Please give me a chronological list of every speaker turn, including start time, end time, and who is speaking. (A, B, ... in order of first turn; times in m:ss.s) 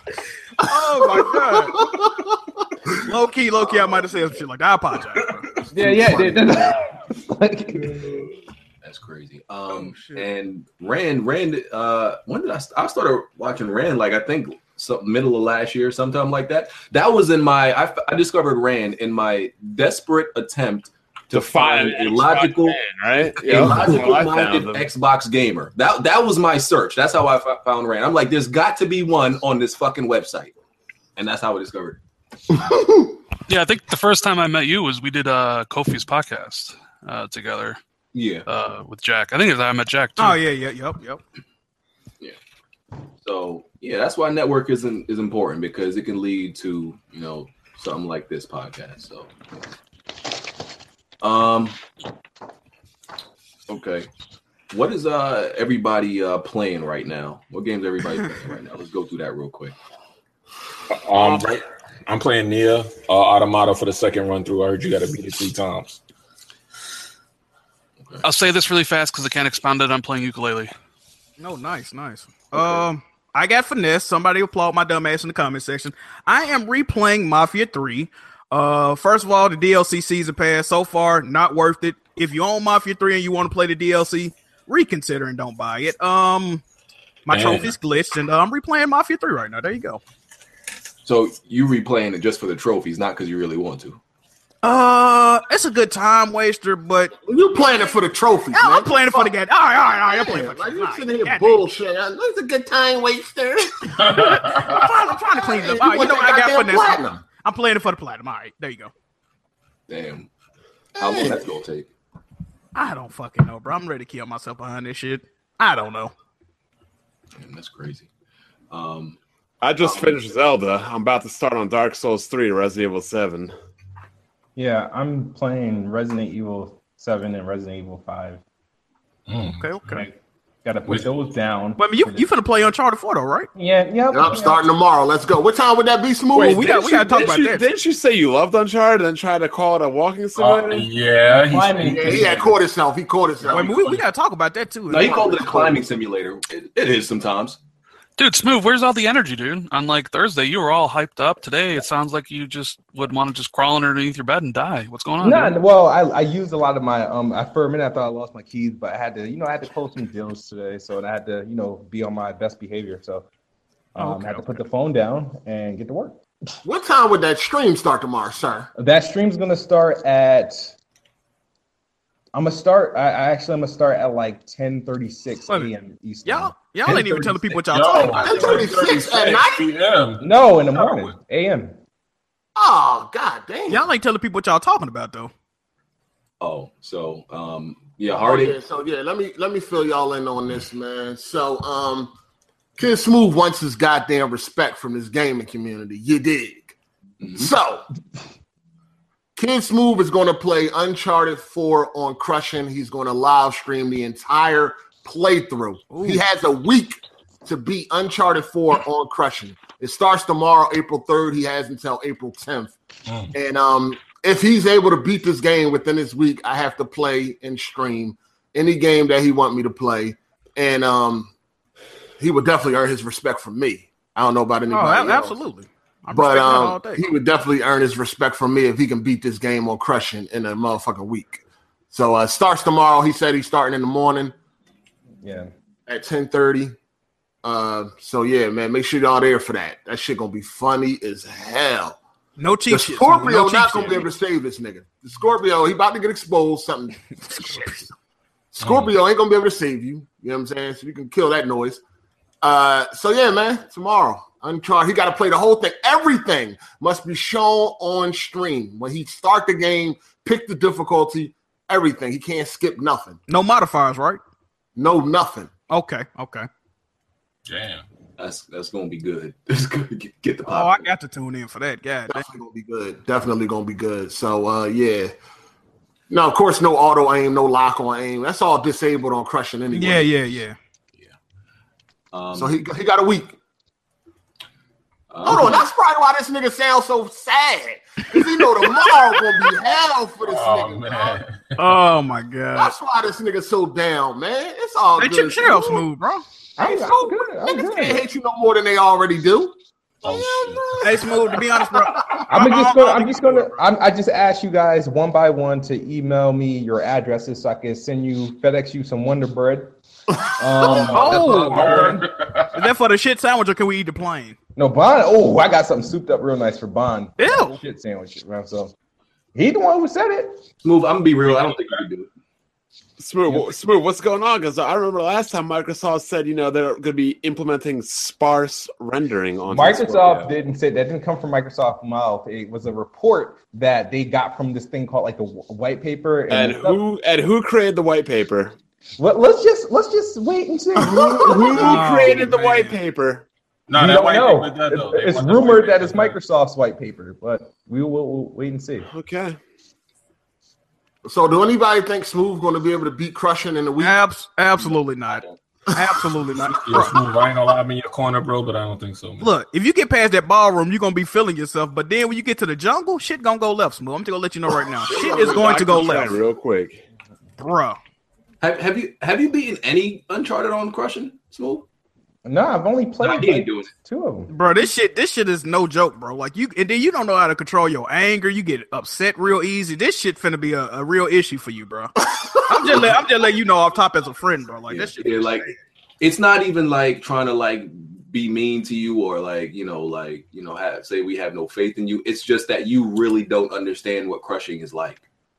0:00.6-0:01.8 A
0:01.1-0:02.4 B
0:03.0-0:05.5 A
0:05.7-0:08.2 C
0:05.8-0:06.7 B
0:08.8-0:22.8 D
0:21.3-0:24.9 E
0:23.4-0:30.5 D
0:31.2-0:32.0 D
0:32.5-0:33.2 B
0:33.5-0:37.8 F
0:38.1-0:38.5 D
0:38.5-0:40.4 F
0:40.2-0:41.2 A
0:43.2-0:49.3 D
0:51.2-0:51.8 D
0:53.7-0:54.1 D
0:54.7-0:59.8 D
1:01.0-1:06.0 G
1:08.2-1:10.7 F
1:11.4-1:26.6 A
1:27.3-1:30.0 A
1:27.3-1:27.7 G
1:31.0-1:34.0 D
1:34.6-1:37.1 A
1:37.2-1:39.3 B
1:38.5-1:41.6 A
1:40.0-1:44.2 B
1:44.0-1:44.8 G
1:44.1-1:48.9 A
1:45.4-1:47.2 B
1:49.9-1:50.3 D
1:51.0-1:51.9 D
1:51.0-1:51.4 B
1:52.8-1:56.1 A
1:57.4-1:58.1 D
1:58.7-1:59.2 D
1:59.6-2:03.5 E
1:59.8-2:00.2 D
2:04.6-2:08.4 C
2:09.3-2:10.0 G
2:09.9-2:12.3 C
2:11.8-2:13.5 A
2:13.6-2:14.6 C
2:14.1-2:16.6 B
2:16.3-2:20.9 E
2:16.4-2:17.6 A
2:20.4-2:22.3 G
2:21.3-2:22.6 C
2:21.8-2:24.0 B
2:23.5-2:25.7 A
2:24.9-2:27.6 D
2:25.1-2:25.6 B
2:28.2-2:35.6 F
2:35.2-2:43.3 C
2:44.0-2:46.2 C
2:44.0-2:44.6 A
2:46.6-2:48.7 B
2:48.8-2:50.7 C
2:52.3-2:56.5 C
2:56.2-2:58.7 A
2:57.7-3:01.1 G
2:58.2-2:59.7 B
3:00.2-3:01.8 C
3:02.6-3:03.9 B
3:03.7-3:05.3 A
3:06.4-3:08.6 D
3:08.1-3:12.1 B
3:12.8-3:16.7 B
3:17.2-3:17.5 D
3:17.3-3:17.9 B
3:19.4-3:32.8 B
3:25.9-3:26.2 A
3:33.1-3:33.3 G
3:33.3-3:41.3 B
3:42.2-3:45.4 B
3:44.7-3:47.1 A
3:46.1-3:54.3 B
3:55.2-3:55.5 C
3:55.9-3:56.7 B
3:57.4-4:02.0 B
4:02.4-4:04.1 A
4:02.7-4:07.9 B
4:07.3-4:07.7 A
4:08.5-4:11.8 B
4:08.6-4:08.9 G
4:12.4-4:23.2 B
4:23.3-4:24.2 A
4:24.8-4:25.5 B
4:25.7-4:26.5 A
4:27.5-4:27.8 G
4:28.2-4:30.9 D
4:30.4-4:32.3 A
4:32.1-4:35.1 B
4:36.1-4:40.1 B
4:39.7-4:40.6 A
4:42.1-4:42.6 D
4:42.3-4:43.3 B
4:45.1-4:45.7 D
4:45.2-4:51.2 B
4:50.2-4:51.7 G
4:51.6-4:52.7 A
4:52.6-4:55.8 B
4:55.0-4:56.2 A
4:56.6-4:58.0 C
4:56.6-4:59.5 B
5:00.0-5:01.1 G
5:00.0-5:00.8 B
5:00.8-5:03.5 A
5:02.3-5:09.8 C
5:10.4-5:12.1 C
5:10.6-5:12.7 G
5:10.8-5:11.9 A
5:12.5-5:14.4 A
5:14.6-5:18.7 C
5:17.2-5:17.6 A
5:19.4-5:20.4 C
5:20.6-5:22.1 D
5:23.0-5:30.3 E
5:29.5-5:36.8 C
5:36.3-5:38.6 E
5:39.0-5:42.0 C
5:40.8-5:43.2 E
5:41.5-5:42.7 A
5:43.7-5:46.2 G
5:43.7-5:48.9 C
5:48.9-5:49.4 E
5:51.0-5:54.0 B
5:53.8-5:57.0 A
5:56.6-5:59.3 G
5:59.2-6:06.2 A
6:04.8-6:06.8 E
6:07.4-6:07.8 A
6:08.4-6:11.6 D
6:12.2-6:14.3 C
6:13.0-6:13.7 D
6:14.3-6:21.9 A
6:22.5-6:25.5 A
6:24.7-6:25.5 D
6:26.0-6:35.0 D